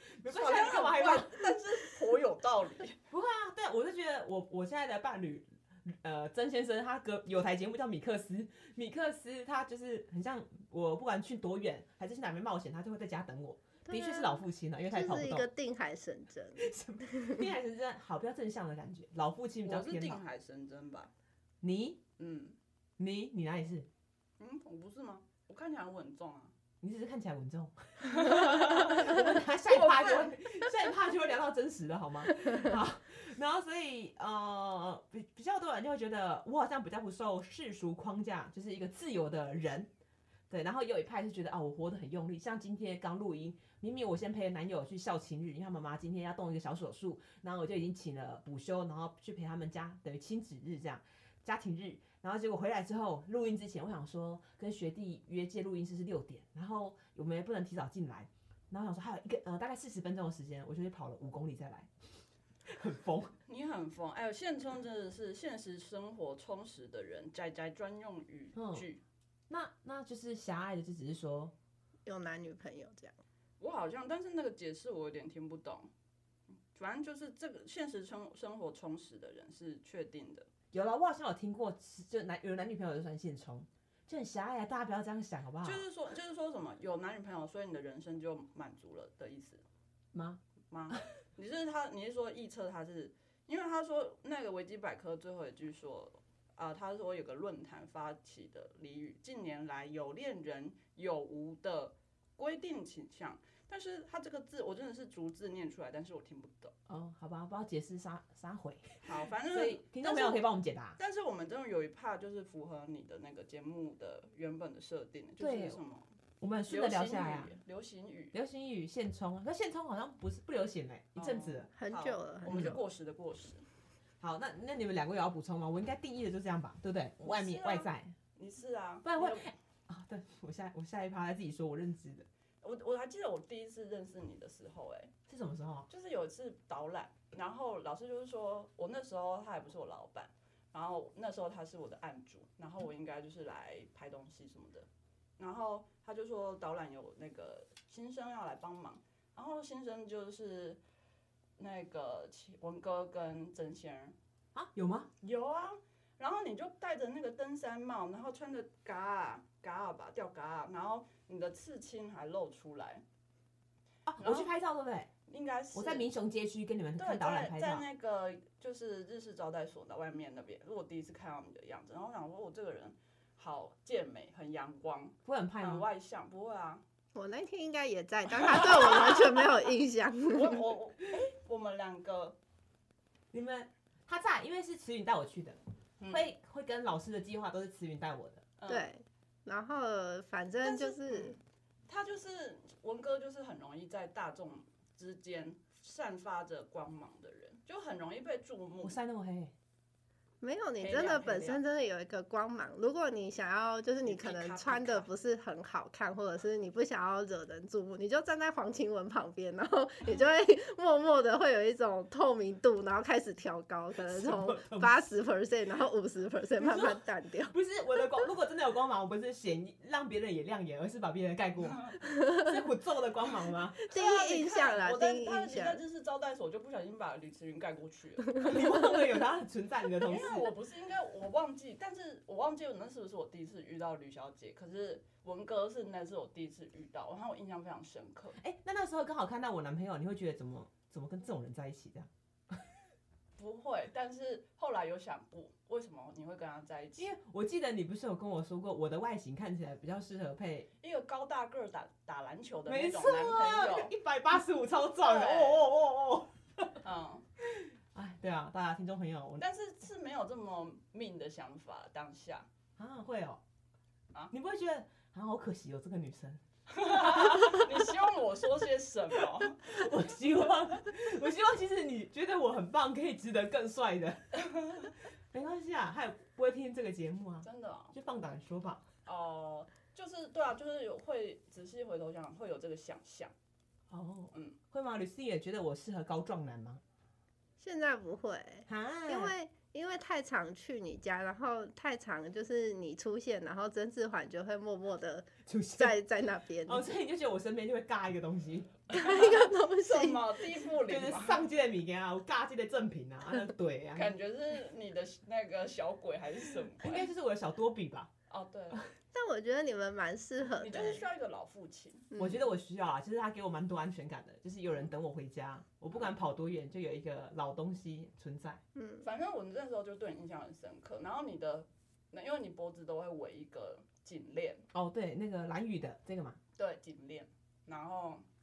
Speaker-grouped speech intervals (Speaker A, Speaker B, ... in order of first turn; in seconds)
Speaker A: 0.2-1.5, 3.1-15.5, 16.6-20.2, 21.6-22.0, 23.0-23.9, 26.8-39.9, 40.5-61.9, 62.7-63.3, 68.6-68.9, 69.5-71.5, 80.7-85.9, 90.1-90.4, 106.9-111.0, 115.4-115.8, 116.4-117.6, 118.3-121.7, 122.5-122.8, 124.2-128.2, 129.0-132.3, 135.3-135.9, 154.6-155.1, 164.1-165.1, 165.7-167.9, 175.2-175.9, 183.3-185.6, 186.1-188.5, 198.8-199.5, 214.1-215.0, 216.6-223.8, 228.4-230.5, 238.4-242.6, 247.0-250.7, 252.7-256.8, 257.4-259.4, 262.8-263.4, 264.3-267.7, 269.2-278.9, 283.9-286.8, 288.7-289.3, 295.5-296.0, 296.7-298.8, 300.8-304.1, 306.8-308.1, 312.2-318.6, 324.7-326.4
Speaker B: 0.2-3.0, 19.6-21.1, 22.2-22.6, 24.4-26.5, 28.0-30.4, 63.5-69.0, 73.6-75.9, 76.7-80.5, 85.6-89.6, 90.7-106.7, 109.0-116.1, 116.7-118.4, 121.2-123.6, 127.2-129.5, 132.6-135.1, 135.9-144.9, 145.4-150.8, 151.6-154.2, 155.2-163.0, 164.2-164.5, 165.3-166.1, 167.0-176.8, 178.5-179.4, 180.3-182.4, 186.0-186.3, 188.6-188.9, 190.6-191.4, 191.9-199.0, 200.8-201.6, 204.1-205.1, 223.9-228.8, 230.0-238.4, 243.4-247.1, 250.8-253.9, 254.9-255.6, 256.8-257.2, 259.4-262.5, 266.7-269.7, 277.4-278.0, 279.1-283.3, 299.0-301.4, 303.9-307.1, 308.3-308.9, 310.5-312.1, 319.0-324.6, 326.6-328.2
Speaker C: 13.9-17.4, 72.1-73.2, 121.8-122.8, 177.2-180.6, 188.7-191.4, 200.4-217.6, 223.9-225.8, 287.6-296.9, 298.9-300.4, 309.1-311.1, 318.8-319.0